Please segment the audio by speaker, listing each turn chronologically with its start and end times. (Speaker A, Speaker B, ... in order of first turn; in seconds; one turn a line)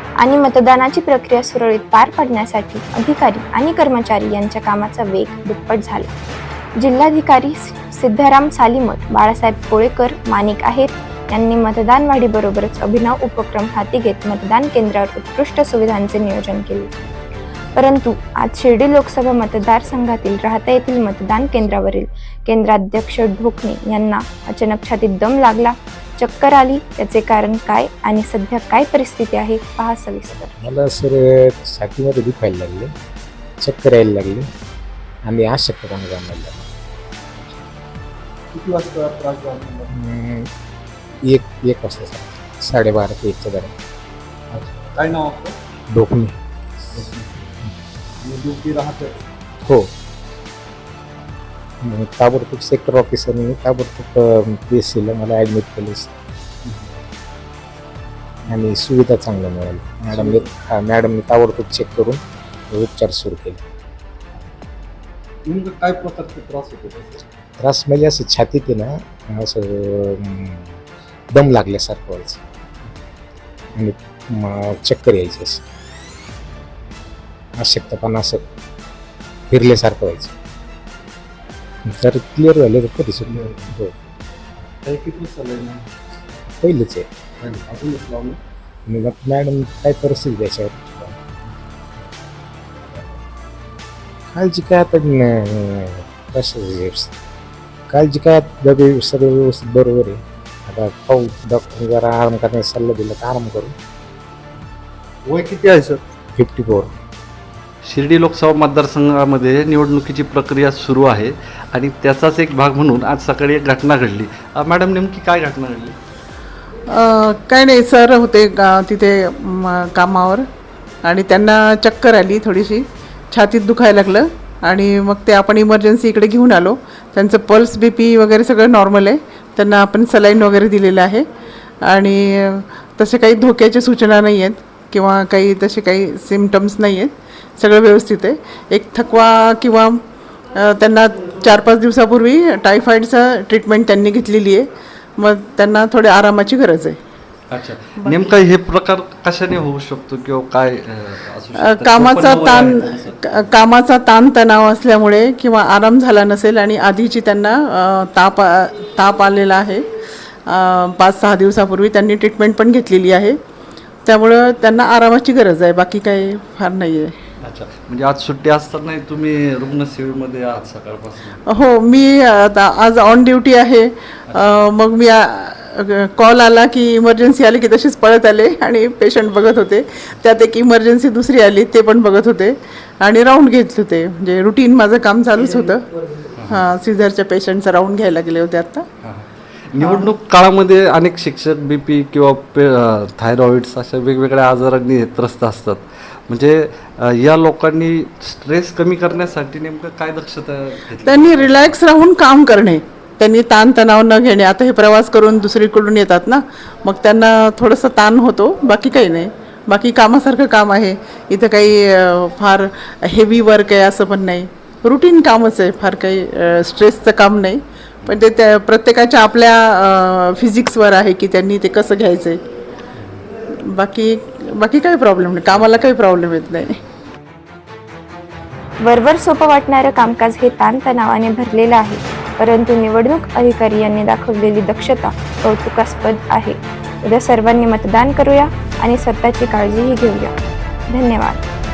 Speaker A: 0.2-6.1
Speaker A: 6.8-16.9
Speaker A: 17.7-30.5
Speaker B: 30.5-32.9
Speaker B: 33.6-34.5
Speaker B: 35.2-36.6
Speaker C: 38.5-39.9
Speaker B: 40.0-40.5
Speaker B: 41.2-43.7
Speaker C: 44.5-45.6
Speaker B: 45.9-46.4
Speaker C: 46.9-47.3
Speaker C: 48.2-49.3
Speaker B: 51.8-56.1
Speaker C: 56.6-56.9
Speaker B: 58.5-63.6
Speaker C: 60.1-60.5
Speaker C: 65.5-67.2
Speaker B: 67.6-70.8
Speaker B: 71.3-72.4
Speaker B: 73.7-75.6
Speaker B: 77.6-78.4
Speaker B: 79.5-80.3
Speaker B: 81.8-84.0
Speaker C: 83.3-83.6
Speaker C: 84.8-85.9
Speaker B: 86.6-87.1
Speaker C: 87.4-88.4
Speaker B: 88.9-91.2
Speaker B: 94.3-97.1
Speaker B: 97.9-103.7
Speaker C: 105.2-106.0
Speaker B: 106.4-106.9
Speaker D: 107.8-116.0
Speaker E: 116.9-120.4
Speaker E: 121.0-131.3
Speaker E: 131.8-140.0
Speaker E: 140.5-147.0
Speaker D: 147.5-153.5
Speaker E: 151.6-159.8
Speaker E: 160.5-163.4
Speaker E: 164.0-167.1
Speaker D: 167.4-171.4
Speaker E: 171.5-185.9
Speaker D: 174.3-174.7
Speaker D: 186.3-186.7
Speaker E: 186.4-188.9
Speaker D: 189.0-201.8
Speaker E: 189.8-190.1
Speaker E: 201.0-222.4
Speaker E: 223.5-226.8
Speaker A: 228.8-240.3
Speaker A: 240.9-241.4